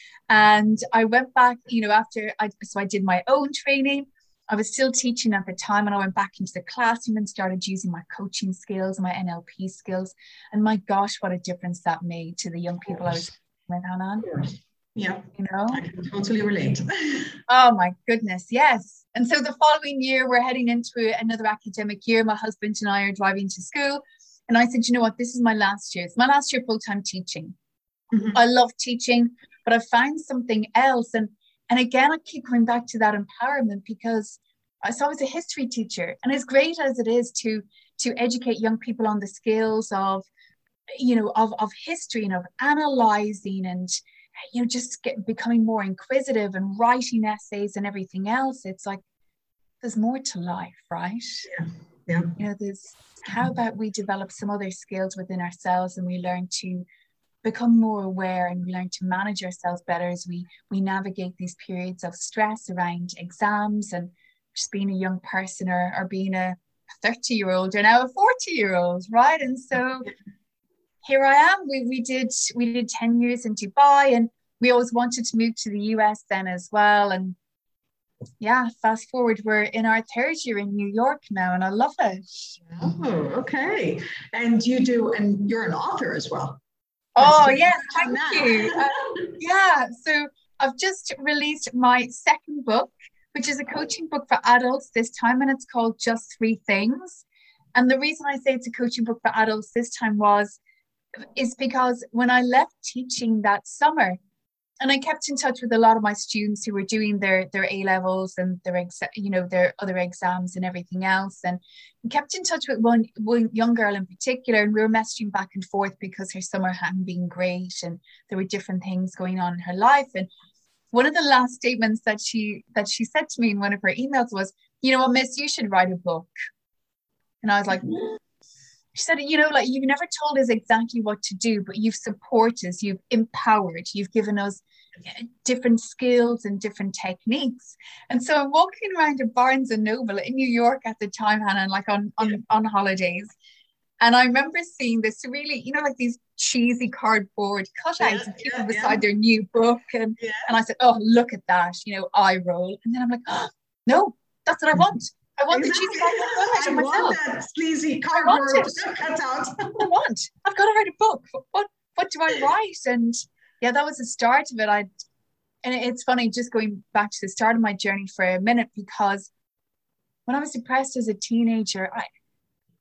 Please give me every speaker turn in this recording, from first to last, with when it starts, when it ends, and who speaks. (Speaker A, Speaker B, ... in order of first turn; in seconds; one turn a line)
Speaker A: 0.3-14.3
Speaker B: 12.9-13.2
Speaker B: 14.2-17.4
Speaker A: 15.3-15.8
Speaker A: 17.5-27.6
Speaker B: 28.1-28.4
Speaker A: 28.3-40.3
Speaker A: 41.0-49.0
Speaker A: 49.8-51.5
Speaker B: 51.5-52.4
Speaker A: 52.4-56.9
Speaker A: 57.4-70.1
Speaker A: 71.0-77.4
Speaker A: 78.4-82.6
Speaker B: 82.6-86.6
Speaker A: 87.2-100.6
Speaker B: 87.2-88.8
Speaker A: 101.4-104.2
Speaker A: 104.8-120.3
Speaker A: 120.9-126.3
Speaker A: 127.4-128.2
Speaker A: 128.9-143.3
Speaker A: 144.0-157.2
Speaker B: 148.0-149.0
Speaker B: 150.2-150.5
Speaker B: 155.5-159.9
Speaker A: 158.1-158.7
Speaker A: 159.8-164.9
Speaker A: 165.6-169.3
Speaker A: 170.3-172.1